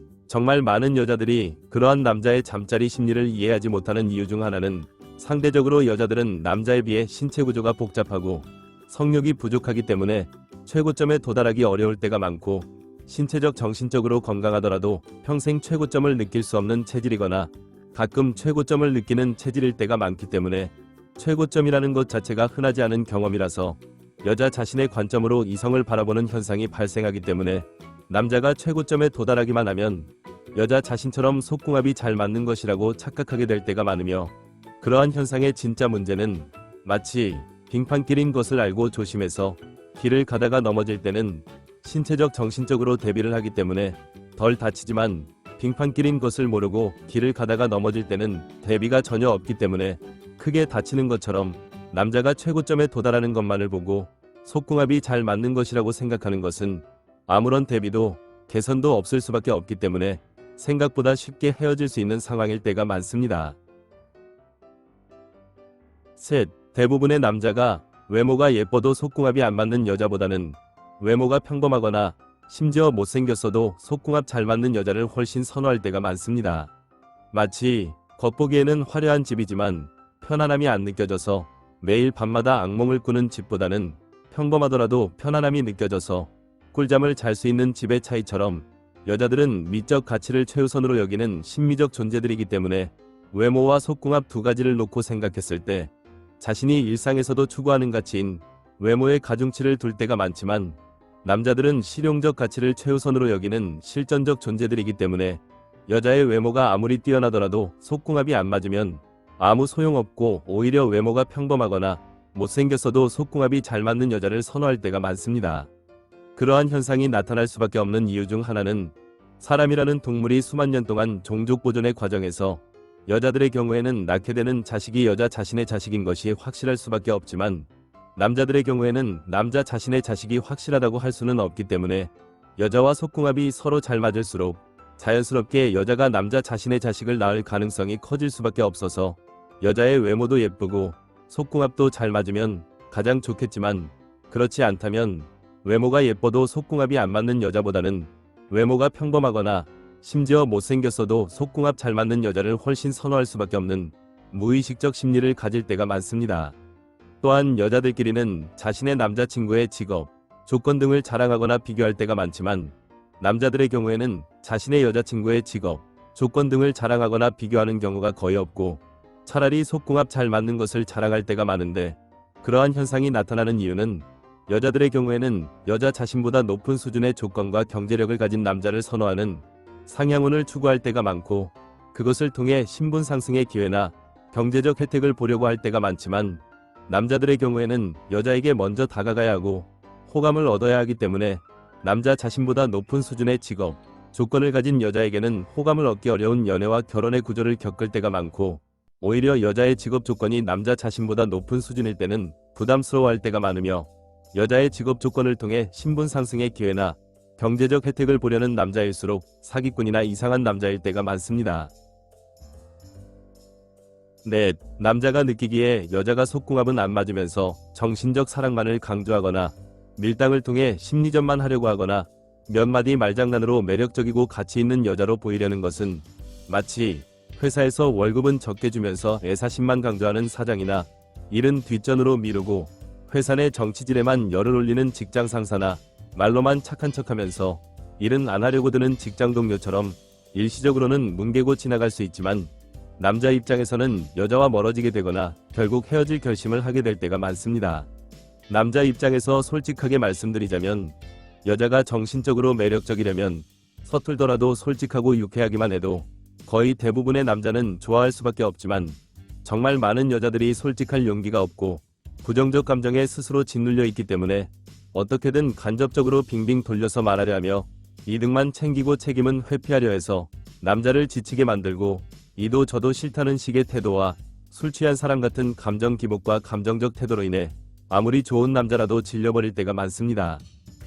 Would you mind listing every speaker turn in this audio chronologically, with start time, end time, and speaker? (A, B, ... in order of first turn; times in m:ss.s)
0:00.3-1:03.6 A
1:06.2-1:16.7 A
1:17.3-1:55.7 A
1:56.4-2:36.6 A
2:37.2-3:31.7 A
3:34.2-4:07.9 A
4:08.5-4:40.4 A